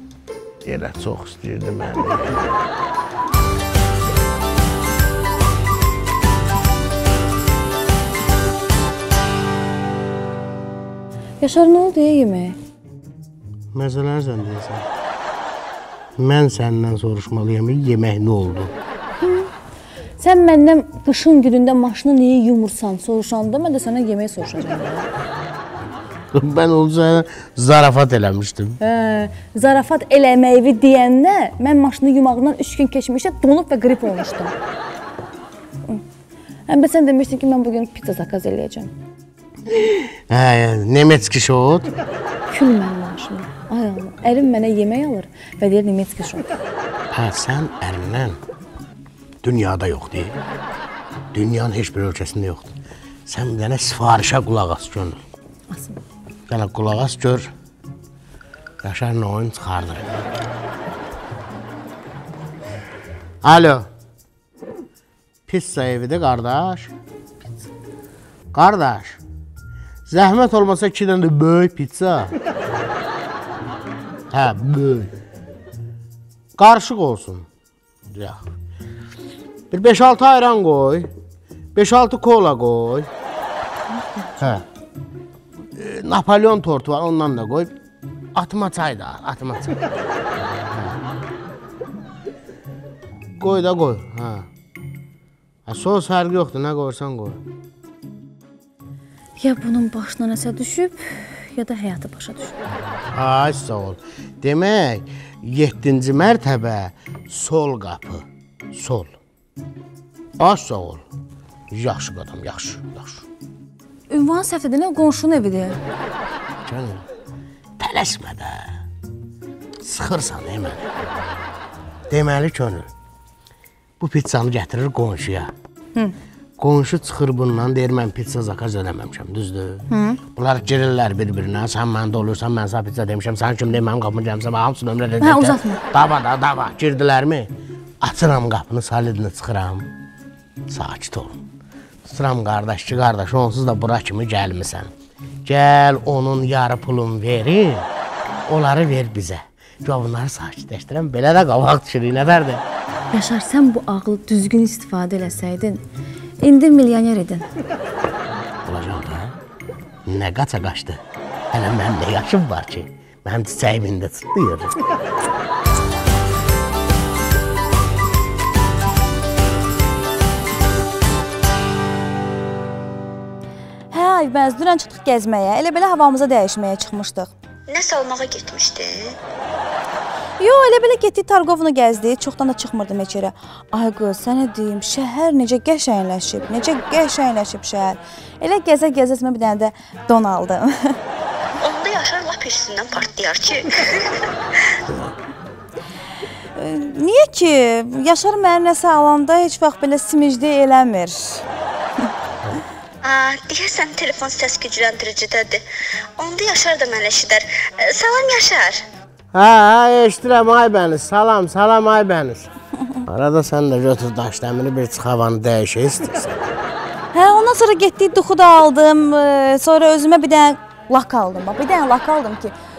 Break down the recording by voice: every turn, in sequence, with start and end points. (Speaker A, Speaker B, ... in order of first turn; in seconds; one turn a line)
Speaker A: 0.6-2.5
Speaker B: 11.4-12.6
Speaker A: 13.7-14.8
Speaker A: 16.2-18.7
Speaker B: 19.2-19.5
Speaker B: 20.2-25.1
Speaker A: 26.3-28.8
Speaker B: 28.8-34.5
Speaker B: 36.7-38.9
Speaker A: 39.7-41.9
Speaker B: 42.5-46.5
Speaker A: 47.1-48.4
Speaker A: 49.4-50.4
Speaker A: 51.3-52.7
Speaker A: 53.3-55.2
Speaker B: 55.7-56.0
Speaker A: 56.5-57.5
Speaker A: 58.8-60.1
Speaker A: 63.4-63.9
Speaker A: 65.5-66.9
Speaker A: 68.5-69.2
Speaker A: 70.1-72.3
Speaker A: 74.3-75.1
Speaker A: 76.6-77.5
Speaker A: 78.1-78.4
Speaker A: 79.7-81.1
Speaker A: 81.7-83.1
Speaker B: 84.0-84.4
Speaker A: 84.4-84.6
Speaker A: 85.8-87.7
Speaker A: 88.3-89.8
Speaker A: 90.7-91.0
Speaker A: 93.4-94.5
Speaker A: 95.7-97.4
Speaker B: 99.4-102.6
Speaker A: 103.1-109.1
Speaker A: 110.4-111.0
Speaker A: 111.7-113.2
Speaker B: 114.1-115.8
Speaker A: 116.6-117.0
Speaker A: 117.8-118.7
Speaker A: 119.8-120.9
Speaker A: 122.1-122.9
Speaker A: 124.0-125.5
Speaker A: 126.6-137.5
Speaker B: 129.9-130.2
Speaker B: 135.2-135.8
Speaker A: 138.0-139.9
Speaker A: 140.7-141.4
Speaker A: 142.0-144.9
Speaker A: 145.4-147.9
Speaker A: 148.4-152.6
Speaker B: 153.1-155.8
Speaker B: 156.4-157.5
Speaker A: 158.6-159.3
Speaker A: 160.1-161.0
Speaker A: 161.5-164.8
Speaker B: 173.9-177.3
Speaker C: 177.7-179.1
Speaker B: 180.4-191.0
Speaker C: 191.6-194.7
Speaker B: 196.6-201.4
Speaker C: 203.0-205.6
Speaker C: 206.2-208.8
Speaker A: 209.3-212.5
Speaker A: 213.1-216.4
Speaker B: 217.1-222.5